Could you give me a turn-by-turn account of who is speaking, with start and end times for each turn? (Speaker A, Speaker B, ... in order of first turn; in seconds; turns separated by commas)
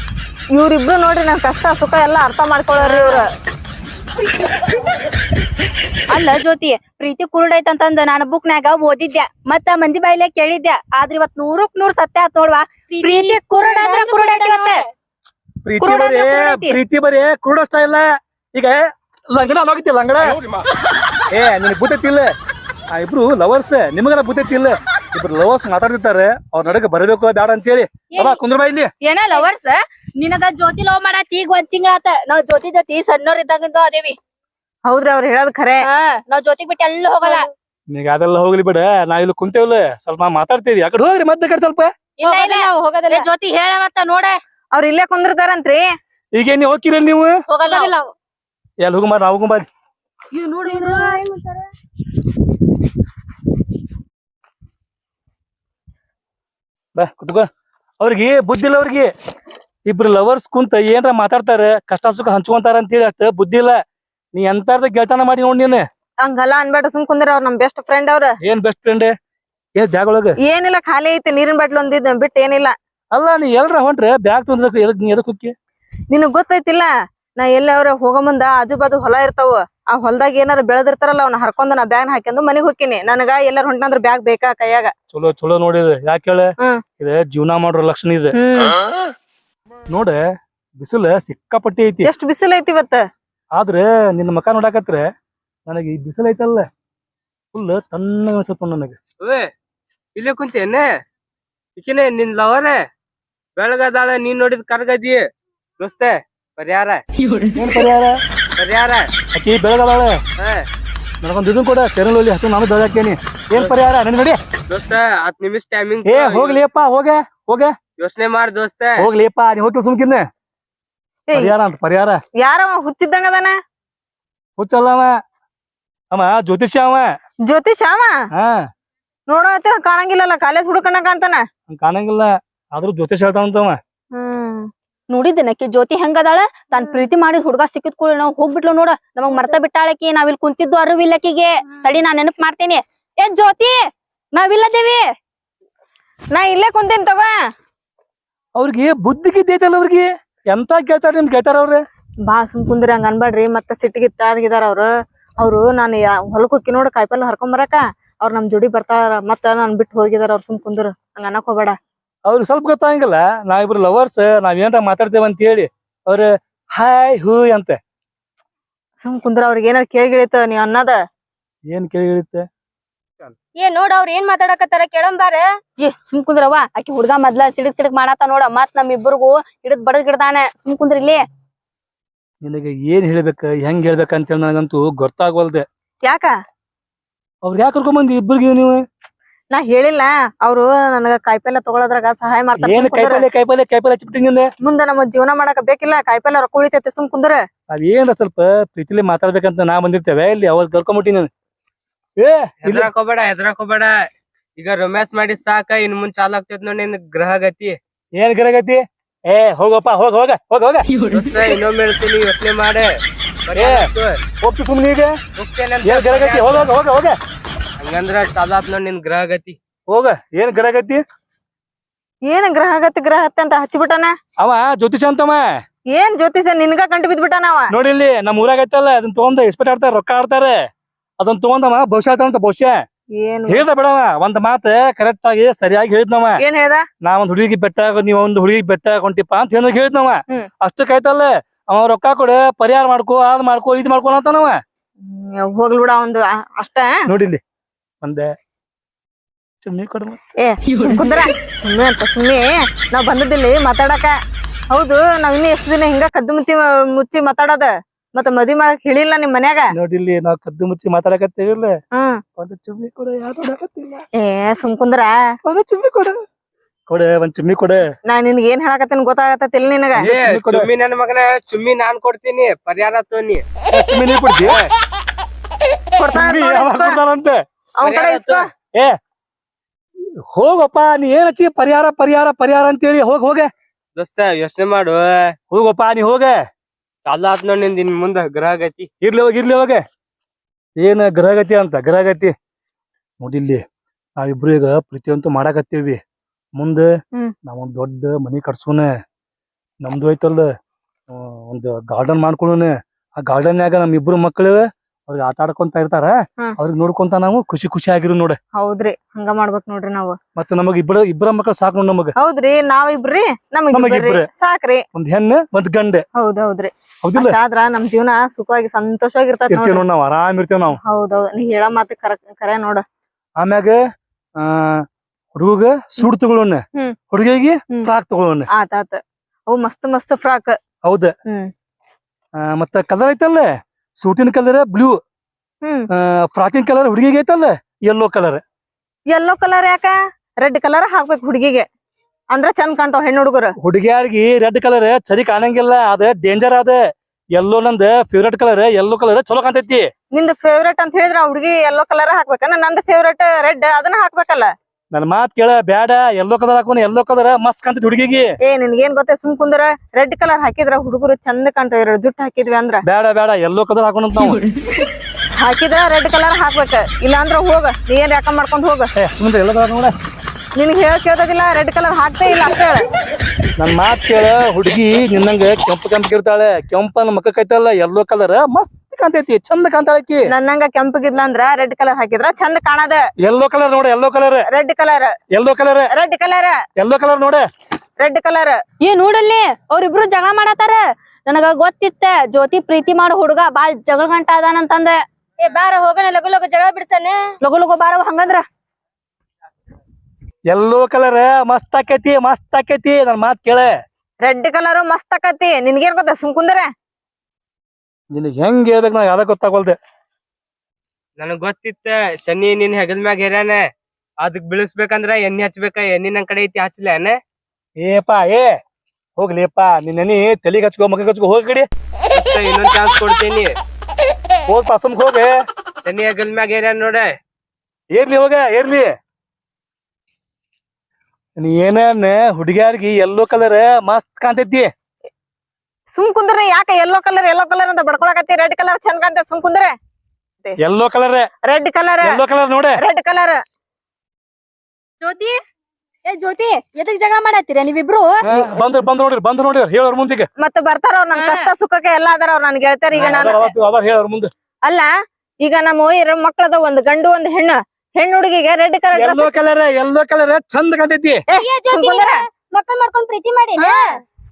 Speaker A: 0.5-3.3, Speaker B: 2.8-3.2, Speaker B: 6.1-14.8, Speaker C: 12.9-14.8, Speaker D: 15.6-20.4, Speaker B: 15.8-16.8, Speaker D: 21.3-22.3, Speaker D: 22.9-28.9, Speaker B: 29.0-34.2, Speaker A: 34.9-35.9, Speaker B: 35.8-37.5, Speaker D: 37.9-41.9, Speaker B: 42.2-44.4, Speaker C: 42.2-43.3, Speaker A: 44.7-45.8, Speaker D: 46.4-47.4, Speaker B: 47.5-47.8, Speaker C: 47.7-48.1, Speaker D: 48.8-49.7, Speaker B: 50.3-51.2, Speaker C: 50.6-51.7, Speaker D: 57.0-57.5, Speaker D: 58.0-59.1, Speaker D: 59.9-63.8, Speaker D: 64.3-65.9, Speaker A: 66.2-68.3, Speaker D: 68.4-69.1, Speaker D: 69.8-70.4, Speaker A: 70.5-72.7, Speaker D: 73.1-75.5, Speaker A: 76.1-76.9, Speaker A: 77.4-84.9, Speaker D: 85.1-88.4, Speaker A: 88.3-88.8, Speaker D: 89.9-90.2, Speaker D: 90.8-92.1, Speaker A: 92.0-93.0, Speaker D: 93.5-95.1, Speaker D: 95.7-96.7, Speaker D: 97.5-99.0, Speaker E: 100.2-100.8, Speaker E: 101.8-102.8, Speaker E: 103.6-105.2, Speaker E: 105.8-107.0, Speaker D: 107.5-108.2, Speaker E: 108.6-109.0, Speaker D: 109.3-110.2, Speaker E: 110.4-110.7, Speaker D: 111.2-114.4, Speaker E: 114.7-116.5, Speaker D: 116.0-117.8, Speaker E: 118.0-118.8, Speaker D: 119.0-120.3, Speaker D: 121.3-122.2, Speaker A: 122.4-123.6, Speaker D: 124.6-125.2, Speaker D: 126.1-127.1, Speaker A: 127.5-128.2, Speaker D: 128.3-128.7, Speaker A: 129.3-131.4, Speaker D: 131.7-133.8, Speaker A: 134.1-134.7, Speaker B: 135.1-143.8, Speaker A: 136.7-137.1, Speaker A: 139.3-139.6, Speaker B: 144.3-145.0, Speaker A: 146.3-147.3, Speaker D: 148.6-151.8, Speaker A: 152.3-154.9, Speaker A: 155.4-161.8, Speaker D: 162.3-167.8, Speaker A: 169.0-171.0, Speaker D: 171.7-172.5, Speaker C: 173.2-175.4, Speaker B: 175.8-181.2, Speaker D: 182.4-185.7, Speaker D: 187.4-188.8, Speaker A: 189.5-193.2, Speaker D: 192.6-194.5, Speaker A: 194.6-197.4, Speaker D: 197.7-201.3, Speaker D: 202.2-202.9, Speaker E: 202.7-203.9, Speaker E: 204.6-207.6, Speaker C: 205.4-205.7, Speaker C: 207.1-207.8, Speaker D: 208.2-210.8, Speaker C: 211.1-212.6, Speaker E: 211.2-212.9, Speaker E: 213.5-214.1, Speaker D: 213.5-213.9, Speaker D: 214.4-215.2, Speaker E: 215.4-216.7, Speaker D: 215.8-217.2, Speaker E: 217.8-218.6, Speaker C: 218.3-219.6, Speaker D: 219.9-221.0, Speaker A: 222.3-224.1, Speaker D: 224.4-225.6, Speaker A: 225.9-227.7, Speaker D: 227.7-230.6, Speaker D: 231.2-232.8, Speaker A: 233.2-233.7, Speaker D: 233.5-236.4, Speaker A: 236.4-236.8, Speaker D: 237.0-244.6, Speaker A: 245.1-246.9, Speaker D: 247.1-247.4, Speaker D: 248.0-248.3, Speaker D: 249.6-250.2, Speaker A: 250.4-254.1, Speaker A: 254.7-259.6, Speaker D: 259.7-261.8, Speaker D: 262.4-264.1, Speaker A: 264.2-265.1, Speaker D: 265.4-266.2, Speaker D: 266.9-267.9, Speaker A: 268.1-270.1, Speaker D: 269.9-270.7, Speaker C: 270.0-270.6, Speaker E: 270.1-273.4, Speaker C: 271.5-273.1, Speaker D: 273.7-274.6, Speaker A: 276.0-277.0, Speaker D: 276.1-277.4, Speaker A: 277.8-278.5, Speaker D: 280.3-283.5, Speaker E: 284.0-285.2, Speaker C: 284.1-284.6, Speaker D: 285.5-286.4, Speaker E: 287.1-288.8, Speaker D: 289.0-289.8, Speaker D: 290.8-292.3, Speaker D: 293.2-293.6, Speaker D: 294.2-296.0, Speaker D: 296.6-296.9, Speaker D: 297.5-298.9, Speaker D: 299.8-300.5, Speaker D: 301.1-308.4, Speaker A: 308.6-310.2, Speaker D: 310.4-312.1, Speaker A: 312.2-314.8, Speaker D: 313.7-314.3, Speaker D: 314.9-316.0, Speaker A: 316.2-319.8, Speaker D: 317.0-317.4, Speaker D: 319.5-320.8, Speaker A: 320.8-322.8, Speaker D: 323.4-323.8, Speaker D: 324.4-328.5, Speaker A: 328.5-329.0, Speaker A: 329.5-330.6, Speaker D: 330.8-331.1, Speaker D: 332.4-335.0, Speaker D: 335.9-338.4, Speaker A: 339.1-341.6, Speaker A: 342.3-343.5, Speaker D: 343.6-346.8, Speaker D: 347.4-349.9, Speaker A: 350.1-354.5, Speaker D: 354.9-358.4, Speaker A: 358.4-362.8, Speaker D: 362.9-364.4, Speaker A: 365.4-368.9, Speaker D: 369.0-369.9, Speaker A: 370.6-372.8, Speaker D: 373.6-380.3, Speaker A: 380.3-383.0, Speaker D: 383.2-384.5, Speaker A: 384.5-385.1, Speaker D: 385.3-385.9, Speaker A: 385.9-386.6, Speaker D: 386.8-387.4, Speaker A: 388.0-388.6, Speaker B: 388.8-395.0, Speaker C: 395.4-397.2, Speaker B: 397.4-398.4, Speaker D: 400.5-403.7, Speaker A: 404.2-406.7, Speaker D: 408.1-409.8, Speaker E: 411.2-413.6, Speaker C: 412.2-412.7, Speaker E: 414.3-417.0, Speaker C: 415.3-417.2, Speaker D: 417.8-418.5, Speaker D: 419.2-421.7, Speaker E: 422.1-423.4, Speaker C: 422.5-423.5, Speaker D: 424.5-425.4, Speaker C: 425.9-427.1, Speaker E: 425.9-427.0, Speaker D: 427.9-428.9, Speaker D: 431.4-434.7, Speaker A: 435.9-439.7, Speaker D: 440.6-441.3, Speaker A: 441.5-442.2, Speaker D: 442.0-442.8, Speaker A: 442.8-443.4, Speaker B: 445.0-445.4, Speaker B: 446.1-448.6, Speaker D: 448.2-450.3, Speaker A: 450.4-453.5, Speaker B: 451.1-451.5, Speaker D: 453.0-454.3, Speaker A: 455.4-459.3, Speaker D: 458.9-461.2, Speaker A: 461.3-462.1, Speaker C: 461.4-464.0, Speaker A: 463.6-463.8